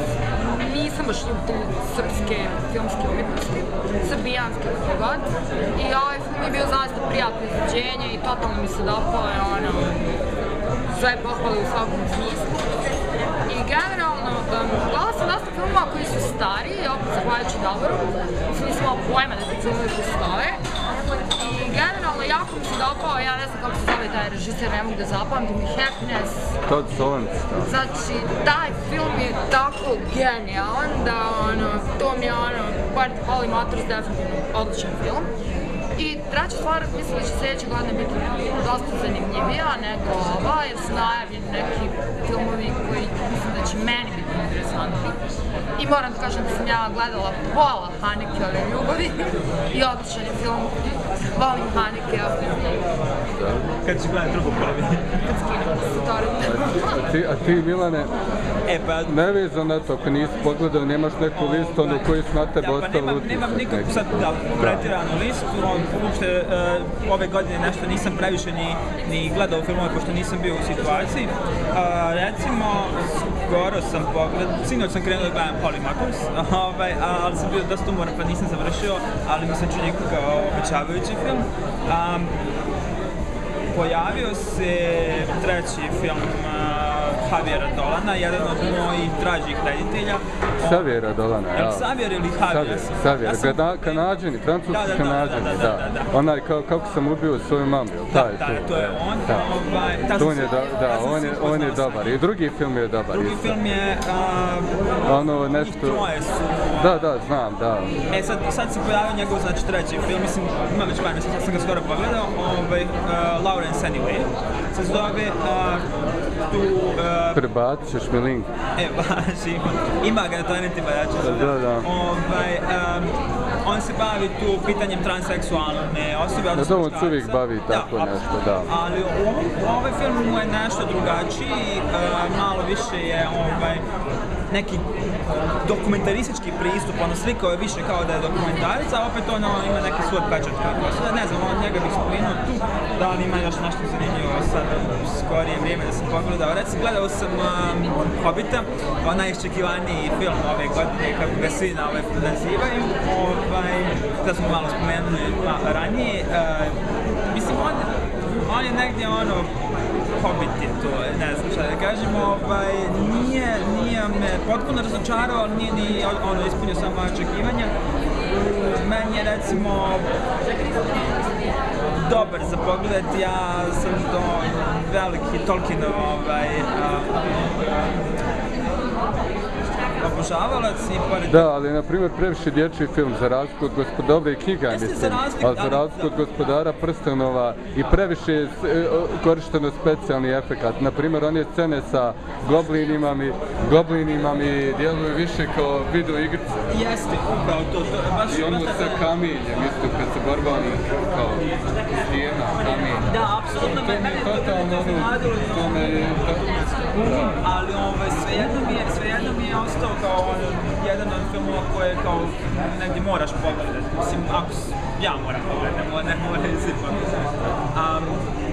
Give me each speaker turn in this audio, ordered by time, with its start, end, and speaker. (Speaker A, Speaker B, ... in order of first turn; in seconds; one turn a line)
Speaker A: 0.4-10.0
Speaker A: 10.9-12.7
Speaker A: 13.5-20.6
Speaker A: 21.3-26.6
Speaker B: 26.7-27.7
Speaker A: 27.6-35.3
Speaker A: 36.0-45.2
Speaker A: 45.8-52.9
Speaker B: 53.3-53.7
Speaker C: 53.8-55.2
Speaker A: 55.2-57.1
Speaker B: 56.4-58.1
Speaker C: 58.7-59.2
Speaker B: 59.1-64.9
Speaker C: 61.3-82.3
Speaker C: 83.7-90.9
Speaker B: 90.6-91.9
Speaker C: 91.5-96.1
Speaker B: 92.4-99.5
Speaker C: 98.1-102.2
Speaker B: 100.1-103.6
Speaker C: 103.1-107.0
Speaker B: 105.0-106.0
Speaker B: 106.8-108.0
Speaker C: 108.1-115.9
Speaker C: 116.5-117.4
Speaker B: 117.3-118.5
Speaker C: 118.8-123.1
Speaker B: 121.2-121.9
Speaker C: 123.6-133.8
Speaker B: 126.5-128.7
Speaker C: 134.5-134.9
Speaker C: 135.6-159.5
Speaker C: 160.2-167.7
Speaker C: 168.4-170.1
Speaker C: 172.0-177.6
Speaker C: 180.0-181.5
Speaker B: 181.3-196.7
Speaker C: 184.7-186.2
Speaker C: 196.7-199.1
Speaker B: 198.3-207.4
Speaker C: 202.6-206.2
Speaker C: 207.1-218.2